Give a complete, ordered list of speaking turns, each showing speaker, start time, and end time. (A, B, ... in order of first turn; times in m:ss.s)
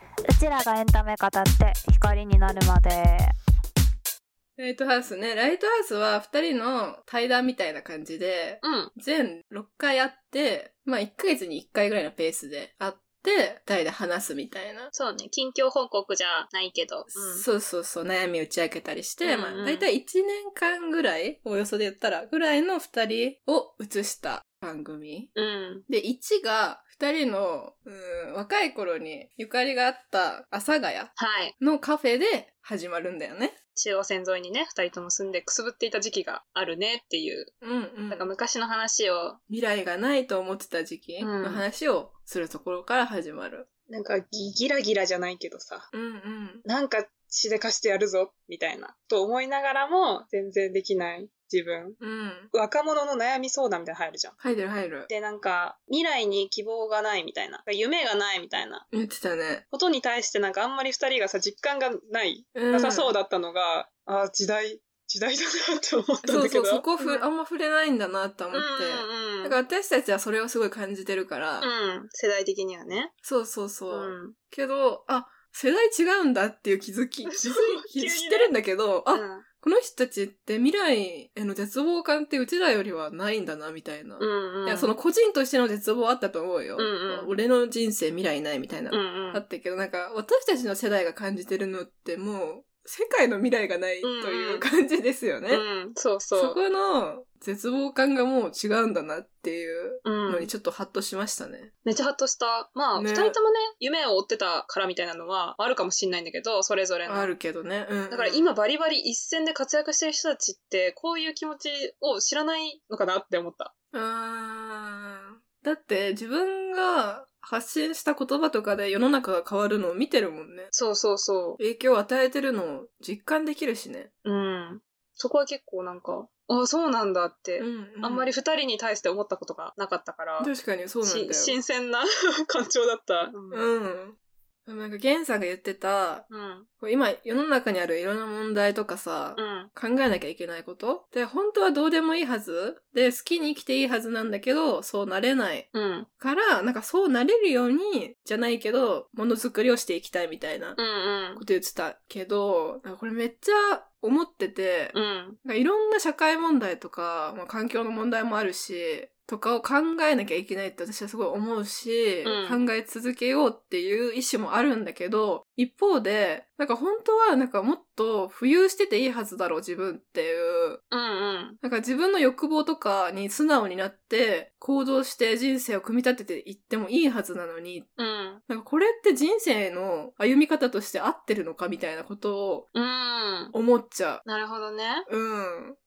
0:00.3-0:03.3 A
0:04.6-0:14.9 B
0:08.6-0:08.9 C
0:14.9-0:17.4 C
0:17.1-0:25.3 B
0:19.2-0:19.9 C
0:25.4-0:25.8 C
0:25.9-0:33.6 B
0:31.2-0:31.6 C
0:33.8-0:37.5 C
0:37.6-0:38.3 B
0:38.1-0:39.4 C
0:39.5-0:43.7 B
0:41.2-0:41.7 C
0:43.9-0:45.9 C
0:45.9-0:46.6 B
0:46.6-0:52.0 C
0:52.0-0:52.5 B
0:52.5-0:54.4 C
0:54.4-0:55.1 B
0:55.1-0:58.8 C
0:58.9-0:59.6 B
0:59.7-1:07.3 C
1:02.5-1:03.2 B
1:06.2-1:11.7 B
1:08.5-1:09.6 C
1:11.6-1:13.1 C
1:13.2-1:35.6 B
1:13.9-1:14.4 C
1:17.3-1:18.5 C
1:19.1-1:19.4 C
1:24.2-1:25.0 C
1:26.8-1:27.3 C
1:28.9-1:29.4 C
1:34.0-1:34.7 C
1:35.5-1:36.6 C
1:36.4-1:41.7 B
1:40.0-1:40.5 C
1:41.8-1:47.3 C
1:43.0-1:43.4 B
1:47.0-1:48.5 B
1:48.1-1:53.7 C
1:53.9-2:00.7 B
2:00.7-2:01.6 C
2:01.6-2:04.1 B
2:04.2-2:10.5 C
2:07.6-2:08.3 B
2:10.4-2:11.6 B
2:11.0-2:13.7 C
2:13.5-2:16.3 B
2:16.3-2:16.7 C
2:16.8-2:25.7 B
2:19.4-2:19.7 C
2:25.7-2:26.1 C
2:26.2-2:30.8 B
2:30.8-2:31.4 C
2:31.4-2:50.8 B
2:34.9-2:35.4 C
2:42.2-2:42.6 C
2:50.9-2:51.6 C
2:51.6-2:57.9 B
2:58.0-2:58.4 C
2:58.5-3:02.7 B
3:02.8-3:03.5 C
3:03.5-3:04.2 B
3:04.3-3:05.1 C
3:05.1-3:05.8 B